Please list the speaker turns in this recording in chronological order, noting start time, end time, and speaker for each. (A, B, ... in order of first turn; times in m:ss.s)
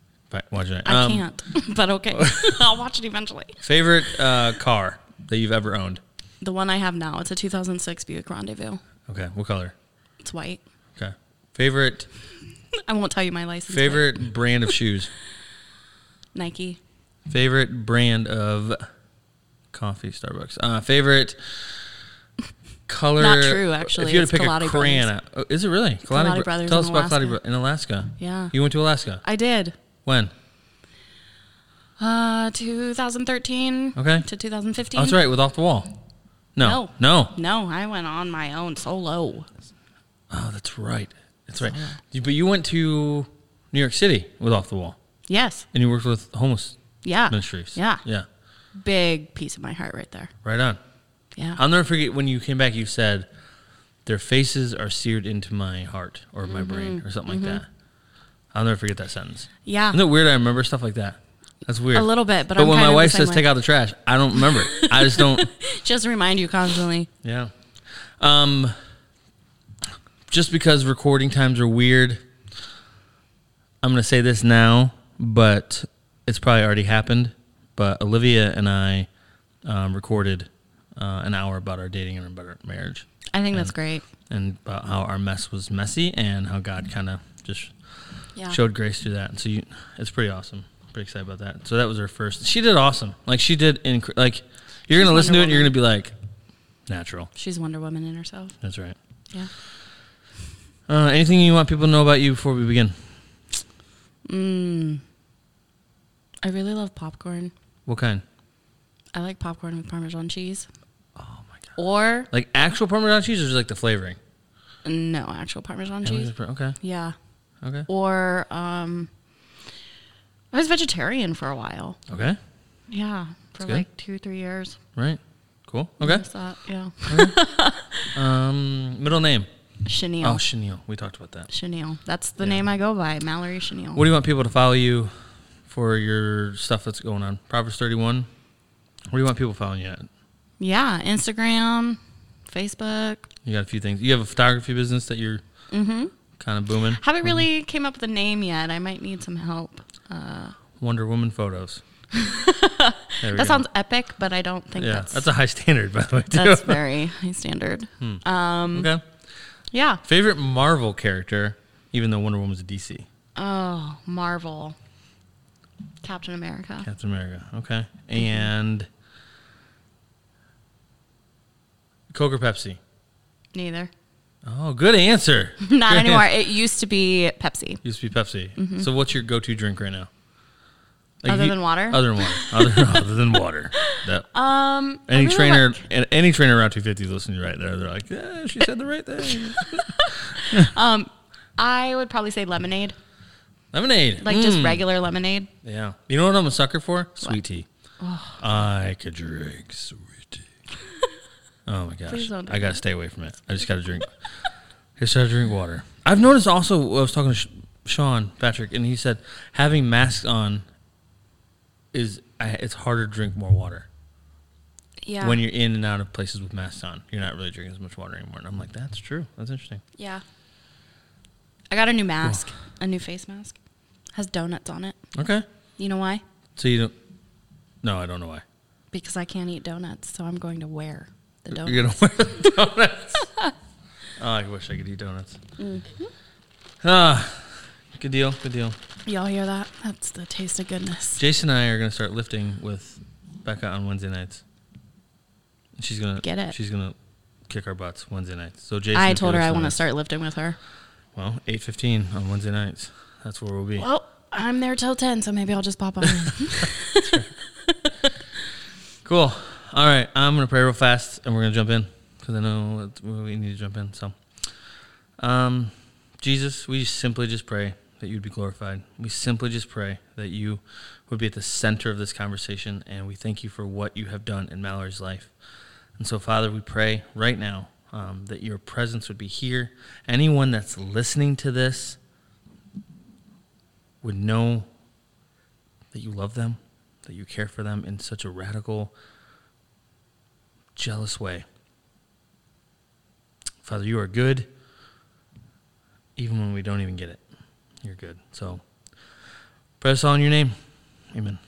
0:00.3-0:01.3 A
0:00.8-0:03.6 B
0:03.6-0:06.0 A
0:06.4-0:08.8 B
0:09.1-0:09.7 A
0:10.2-0:10.6 B
0:11.0-0:12.1 A
0:12.8-0:14.2 B
0:13.7-0:15.1 A
0:16.3-0:16.8 B
0:17.3-0:18.8 A
0:19.7-0:22.0 A
0:22.9-0:29.2 A
0:23.2-0:25.1 B
0:26.0-0:27.4 B
0:28.2-0:28.5 B
0:29.2-0:29.7 B
0:30.0-0:30.3 A
0:32.0-0:35.2 B
0:34.0-0:34.3 A
0:34.9-0:35.9 A
0:36.5-0:37.3 A
0:36.6-0:39.5 B
0:40.3-0:45.0 A
0:41.6-0:42.0 B
0:45.3-0:45.6 B
0:45.7-0:48.3 A
0:47.0-0:48.0 B
0:48.7-0:50.3 B
0:50.4-0:50.8 A
0:51.6-0:53.3 A
0:54.0-0:57.7 A
0:56.4-0:57.6 B
0:58.5-1:05.5 A
0:59.6-1:00.0 B
1:01.9-1:03.5 B
1:04.3-1:07.1 B
1:07.2-1:07.5 A
1:08.2-1:08.8 A
1:10.3-1:12.2 A
1:13.8-1:19.1 A
1:19.6-1:23.7 A
1:23.3-1:24.0 B
1:24.3-1:36.1 A
1:35.0-1:35.7 B
1:36.9-1:37.3 A
1:37.3-1:38.5 B
1:38.6-1:39.0 A
1:40.9-1:43.0 A
1:44.2-1:45.0 B
1:46.4-1:47.5 B
1:47.8-1:48.2 A
1:49.1-1:50.6 B
1:51.2-1:51.7 A
1:51.8-1:52.3 B
1:52.3-1:54.2 A
1:54.8-1:57.2 B
1:56.0-1:56.8 A
1:57.6-1:57.9 A
1:57.9-1:59.1 B
2:00.5-2:02.0 B
2:02.1-2:02.4 A
2:02.9-2:04.8 B
2:04.9-2:06.2 A
2:06.0-2:08.1 B
2:07.1-2:07.4 A
2:08.1-2:09.5 A
2:09.8-2:10.4 B
2:10.2-2:11.5 A
2:11.5-2:14.0 B
2:13.9-2:15.1 A
2:15.7-2:18.3 A
2:19.1-2:20.1 A
2:20.6-2:23.3 B
2:23.4-2:25.4 A
2:25.7-2:26.1 B
2:26.4-2:27.4 A
2:26.9-2:30.6 B
2:30.8-2:31.8 A
2:32.1-2:35.3 B
2:33.2-2:33.6 A
2:34.8-2:36.8 A
2:36.3-2:38.9 B
2:38.0-2:39.0 A
2:39.7-2:40.0 B
2:40.0-2:43.1 A
2:43.3-2:44.8 B
2:46.0-2:46.9 B
2:46.8-2:48.9 A
2:52.1-2:52.8 A
2:53.5-2:53.9 B
2:54.4-2:56.2 A
2:55.6-2:57.8 B
2:57.8-3:00.1 A
2:58.6-2:58.9 B
3:01.2-3:04.3 A
3:01.3-3:02.8 B
3:03.8-3:05.8 B
3:05.0-3:10.7 A
3:09.3-3:13.0 B
3:13.7-3:14.8 A
3:14.2-3:15.5 B
3:15.6-3:17.7 A
3:18.0-3:18.4 B
3:18.4-3:20.4 A
3:21.6-3:30.6 A
3:22.1-3:22.8 B
3:31.9-3:33.9 A
3:35.0-3:35.4 B
3:35.2-3:39.8 A
3:40.0-3:40.2 B
3:41.7-3:43.6 B
3:44.1-3:45.0 B
3:45.1-3:45.4 A
3:45.8-3:46.2 B
3:46.6-3:46.9 A
3:47.8-3:48.4 A
3:48.9-3:52.5 B
3:51.5-3:53.3 A
3:54.2-3:55.4 A
3:55.6-3:56.1 B
3:56.8-3:58.8 A
3:59.0-4:01.2 B
4:01.2-4:04.4 A
4:05.8-4:07.0 A
4:06.2-4:06.6 B
4:07.5-4:09.8 A
4:08.9-4:10.6 B
4:11.2-4:13.9 A
4:13.8-4:17.9 B
4:17.0-4:17.3 A
4:19.0-4:24.5 A
4:25.2-4:35.3 A
4:36.0-4:42.0 A
4:44.0-4:44.7 A
4:45.9-4:48.9 A
4:50.8-4:51.4 A
4:53.6-4:54.5 A
4:56.2-4:57.2 A
4:57.8-4:59.2 A
4:59.8-5:00.6 A
5:01.1-5:01.4 A